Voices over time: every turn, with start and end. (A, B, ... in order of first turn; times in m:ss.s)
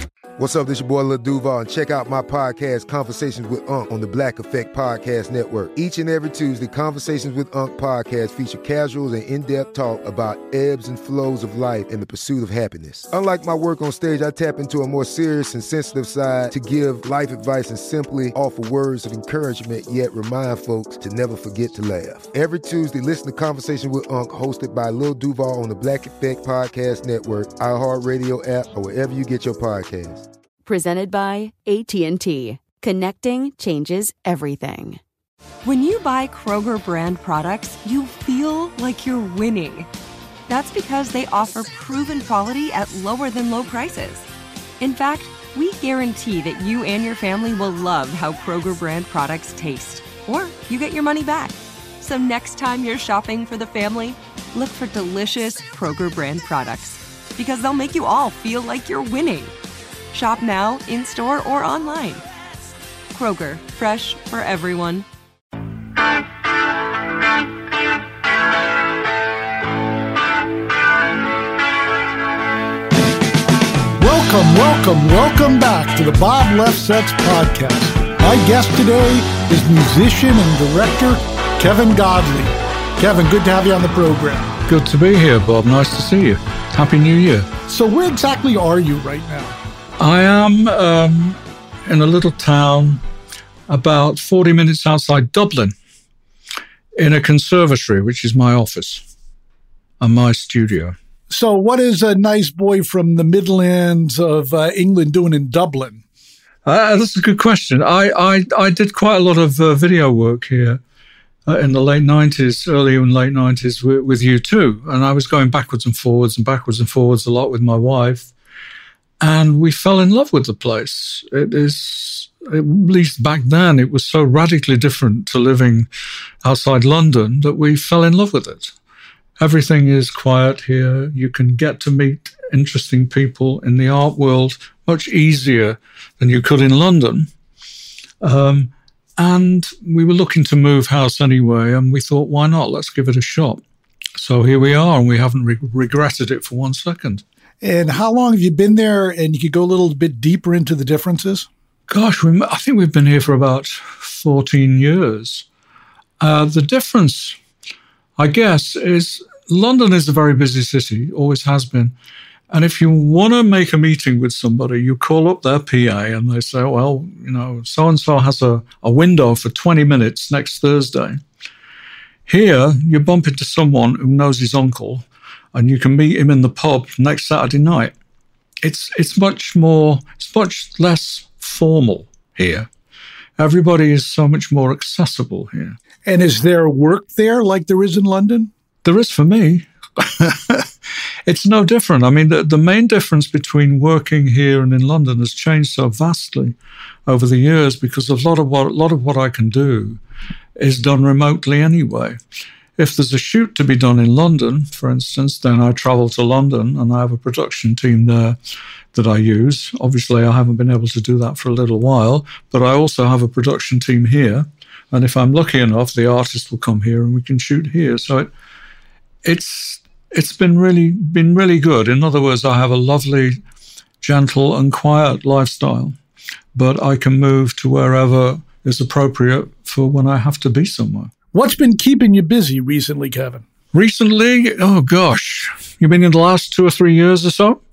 0:00.4-0:30.3 A
0:30.6-0:35.0 B
0:35.6-0:39.9 C
0:40.5-0:44.3 C
0:44.8-0:59.5 C
1:00.1-1:02.2 C
1:03.1-1:05.0 C
1:14.0-1:24.6 D
1:24.7-1:27.5 E
1:27.7-1:29.6 D
1:30.0-1:33.0 E
1:33.7-1:35.7 E
1:37.0-1:39.1 E
1:40.0-1:41.0 E
1:41.3-1:46.0 D
1:46.6-1:50.8 E
1:51.4-1:58.3 E
1:59.2-2:05.9 E
2:06.4-2:08.7 E
2:09.4-2:17.3 E
2:18.2-2:23.6 E
2:24.2-2:27.2 E
2:27.6-2:31.5 D
2:31.9-2:35.4 E
2:36.2-2:37.4 E
2:38.2-2:41.9 E
2:42.5-2:51.2 E
2:52.2-2:57.9 E
2:58.6-3:02.7 E
3:03.4-3:05.8 E
3:06.0-3:08.5 D
3:08.8-3:10.7 E
3:11.2-3:20.0 E
3:20.6-3:22.2 E
3:22.8-3:28.4 E
3:28.9-3:38.3 E
3:39.2-3:43.4 E
3:44.0-3:46.0 E
3:46.5-3:51.1 E
3:51.3-3:53.4 D
3:53.7-3:57.6 E